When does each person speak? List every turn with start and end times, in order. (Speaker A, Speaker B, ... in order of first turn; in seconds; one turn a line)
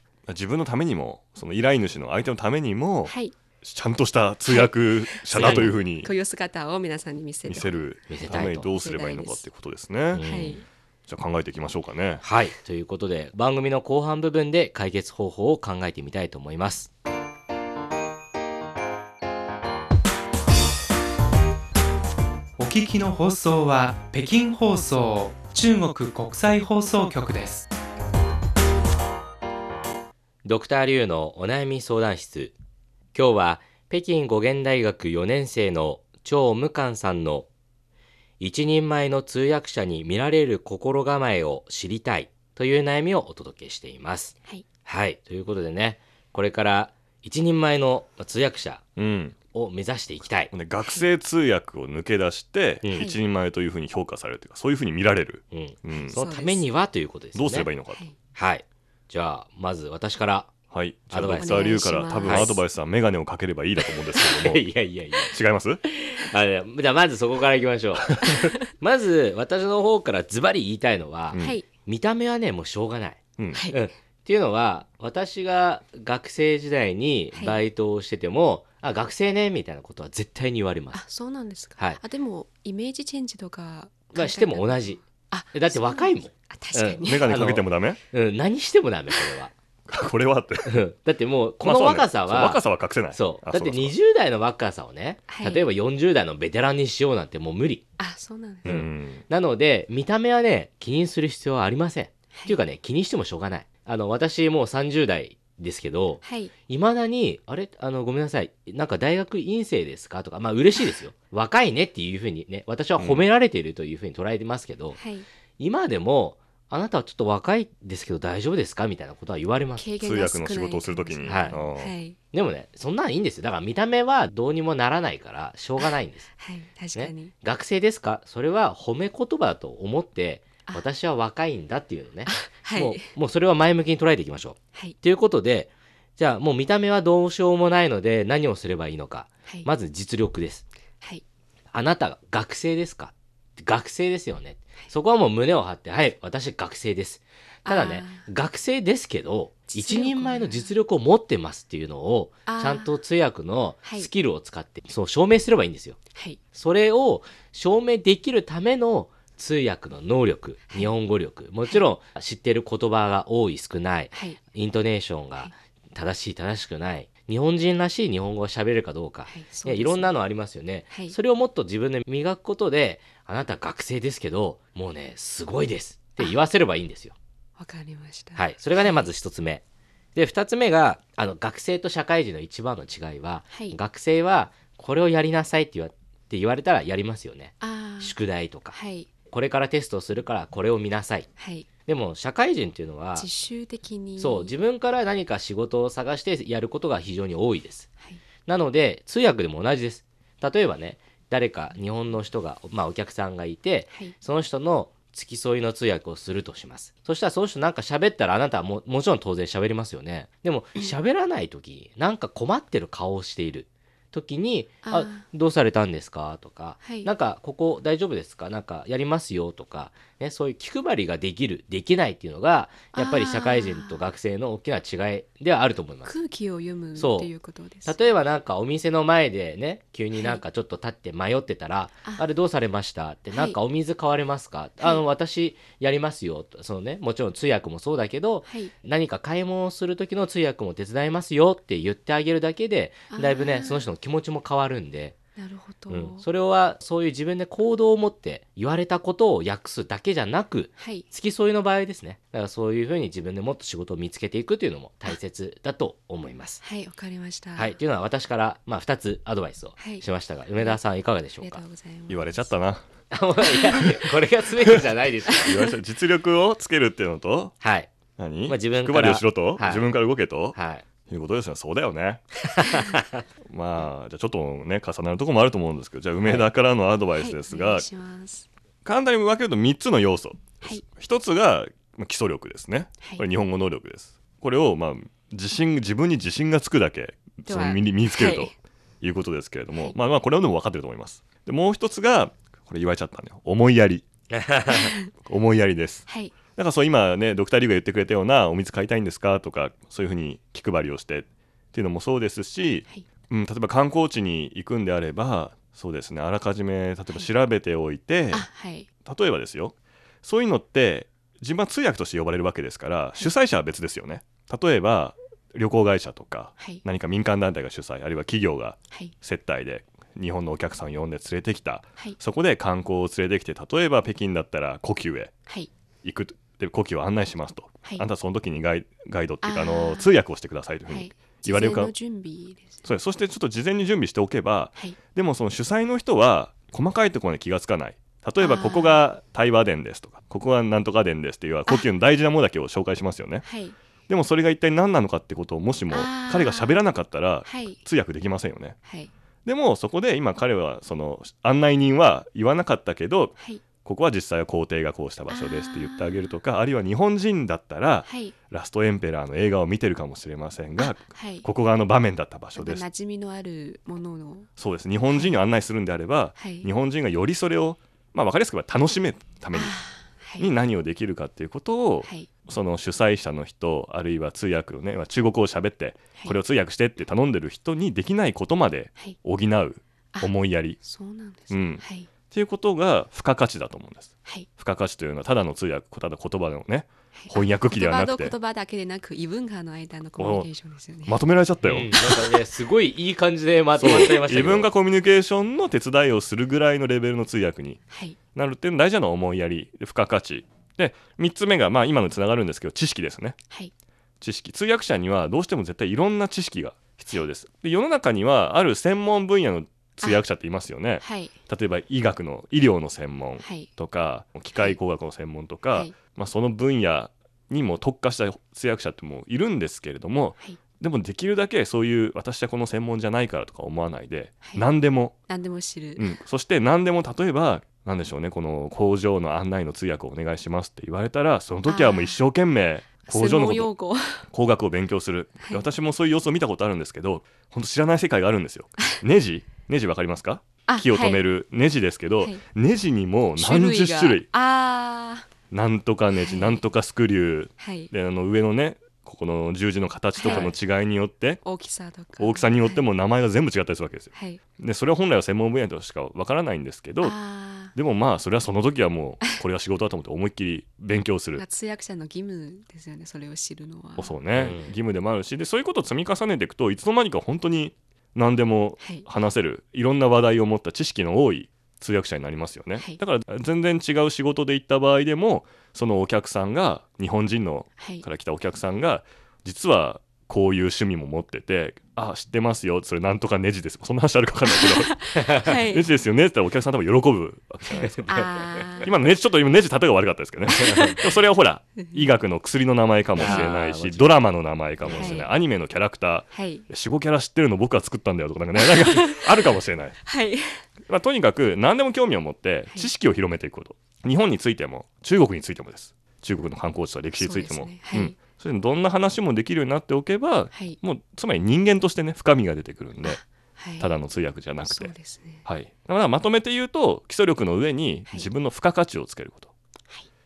Speaker A: 0.3-6.1
Speaker B: 3.1-3.3
Speaker B: 4.5-7.8
Speaker C: 5.3-5.7
Speaker A: 7.5-10.2
Speaker C: 8.1-8.7
Speaker B: 8.5-9.4
Speaker C: 10.1-10.6
Speaker B: 10.2-10.6
Speaker A: 11.1-12.2
Speaker C: 12.2-16.9
Speaker D: 22.6-27.7
Speaker C: 30.4-32.5
Speaker C: 33.1-37.5
Speaker C: 38.4-48.8
Speaker A: 49.0-49.4
Speaker C: 49.5-50.5
Speaker A: 50.5-56.1
Speaker C: 52.8-53.1
Speaker C: 55.5-57.7
Speaker B: 55.9-56.6
Speaker A: 57.3-58.0
Speaker C: 58.3-60.5
Speaker A: 60.7-64.7
Speaker C: 61.1-62.5
Speaker B: 61.4-62.6
Speaker C: 63.9-81.0
Speaker A: 65.3-65.8
Speaker B: 68.3-68.5
Speaker A: 71.3-71.5
Speaker B: 71.4-71.7
Speaker B: 73.5-73.8
Speaker B: 80.9-87.3
Speaker C: 84.1-85.0
Speaker C: 85.5-89.5
Speaker A: 87.0-88.0
Speaker A: 89.9-90.8
Speaker C: 90.7-92.6
Speaker A: 91.6-93.9
Speaker C: 93.1-97.8
Speaker B: 95.3-95.7
Speaker B: 98.0-98.7
Speaker A: 98.6-99.2
Speaker C: 98.6-115.0
Speaker B: 106.2-106.5
Speaker A: 113.0-113.3
Speaker B: 115.0-115.2
Speaker C: 115.6-119.8
Speaker B: 119.8-122.2
Speaker A: 120.0-121.9
Speaker C: 121.3-121.6
Speaker C: 122.3-126.3
Speaker B: 125.8-127.3
Speaker C: 126.9-140.6
Speaker B: 132.3-133.1
Speaker C: 141.7-156.0
Speaker B: 147.6-148.2
Speaker B: 149.7-150.7
Speaker B: 152.4-152.9
Speaker C: 156.5-177.1
Speaker B: 164.1-164.4
Speaker B: 169.3-170.1
Speaker B: 177.6-179.1
Speaker C: 178.3-179.6
Speaker C: 180.1-188.8
Speaker B: 187.6-188.2
Speaker B: 188.7-189.1
Speaker C: 189.3-191.3
Speaker B: 191.4-191.7
Speaker C: 191.9-193.3
Speaker B: 193.2-194.5
Speaker C: 194.2-197.9
Speaker C: 198.4-226.1
Speaker B: 214.8-215.2
Speaker B: 216.8-217.1
Speaker B: 222.9-224.1
Speaker B: 226.0-228.0
Speaker C: 226.9-227.3
Speaker C: 227.8-245.2
Speaker B: 230.1-230.4
Speaker B: 238.4-238.7
Speaker B: 243.1-243.9
Speaker B: 245.4-246.2
Speaker C: 245.9-256.6
Speaker B: 250.8-251.0
Speaker B: 256.6-257.8
Speaker C: 257.6-261.6
Speaker B: 259.8-260.0
Speaker B: 261.4-262.5
Speaker A: 262.1-262.9
Speaker C: 263.1-265.6
Speaker B: 263.4-264.0
Speaker B: 265.3-265.6
Speaker A: 265.4-267.5
Speaker C: 267.6-267.9
Speaker A: 268.2-270.6
Speaker C: 268.5-269.9
Speaker C: 270.5-270.8
Speaker A: 271.1-272.3
Speaker C: 272.5-273.2
Speaker B: 272.6-272.9
Speaker A: 273.4-277.8
Speaker B: 277.2-278.5
Speaker A: 278.8-294.1
Speaker B: 287.4-288.5
Speaker C: 294.3-294.9
Speaker B: 294.7-295.1
Speaker A: 295.2-308.5
Speaker B: 296.1-296.3
Speaker B: 308.3-308.9
Speaker A: 309.0-325.3
Speaker A: 326.0-331.9
Speaker B: 329.4-330.1
Speaker B: 330.9-332.9
Speaker A: 332.8-343.4
Speaker B: 338.4-339.0
Speaker B: 343.4-343.7
Speaker A: 344.1-348.8
Speaker B: 345.9-346.8
Speaker B: 347.4-347.8
Speaker B: 348.9-349.1
Speaker A: 349.4-362.8
Speaker B: 355.3-356.4
Speaker B: 358.1-358.3
Speaker B: 360.8-361.5
Speaker B: 362.6-364.5
Speaker A: 364.6-369.8
Speaker B: 365.1-365.4
Speaker B: 366.4-366.7
Speaker B: 369.5-370.5
Speaker A: 370.4-380.8
Speaker B: 380.1-382.1
Speaker A: 381.5-388.3
Speaker B: 387.1-391.2
Speaker A: 390.2-390.5
Speaker A: 391.1-392.2
Speaker C: 391.6-394.7
Speaker A: 393.8-397.8
Speaker B: 397.9-398.2
Speaker A: 398.3-403.4
Speaker A: 404.2-425.1
Speaker B: 411.0-411.3
Speaker B: 413.4-413.7
Speaker B: 425.3-426.1
Speaker A: 426.0-433.7
Speaker B: 431.6-432.2
Speaker B: 433.1-434.2
Speaker A: 434.3-444.3
Speaker B: 435.4-435.6
Speaker B: 440.7-441.2
Speaker B: 443.4-445.3
Speaker A: 445.5-451.4
Speaker B: 446.1-446.6
Speaker B: 447.6-447.9
Speaker B: 450.1-450.5
Speaker C: 450.3-450.5
Speaker B: 451.4-452.8
Speaker A: 452.2-457.1
Speaker B: 454.1-454.4
Speaker B: 457.0-457.7
Speaker A: 457.7-461.4
Speaker B: 461.4-464.2
Speaker A: 464.0-488.2
Speaker C: 464.3-464.7
Speaker B: 468.8-469.1
Speaker B: 477.8-478.0
Speaker B: 484.5-485.9
Speaker C: 487.7-488.7
Speaker B: 488.1-488.9
Speaker A: 488.8-500.0
Speaker C: 490.6-491.0
Speaker B: 490.7-491.0
Speaker B: 491.8-492.0
Speaker C: 493.1-494.1
Speaker B: 493.2-493.5
Speaker C: 494.8-495.2
Speaker B: 494.9-495.3
Speaker B: 496.3-496.6
Speaker B: 498.6-499.2
Speaker B: 500.0-500.6
Speaker A: 500.9-513.2
Speaker B: 507.2-508.1
Speaker B: 510.5-510.8
Speaker B: 513.0-513.9
Speaker A: 513.8-514.9
Speaker B: 514.6-515.4
Speaker A: 515.4-519.5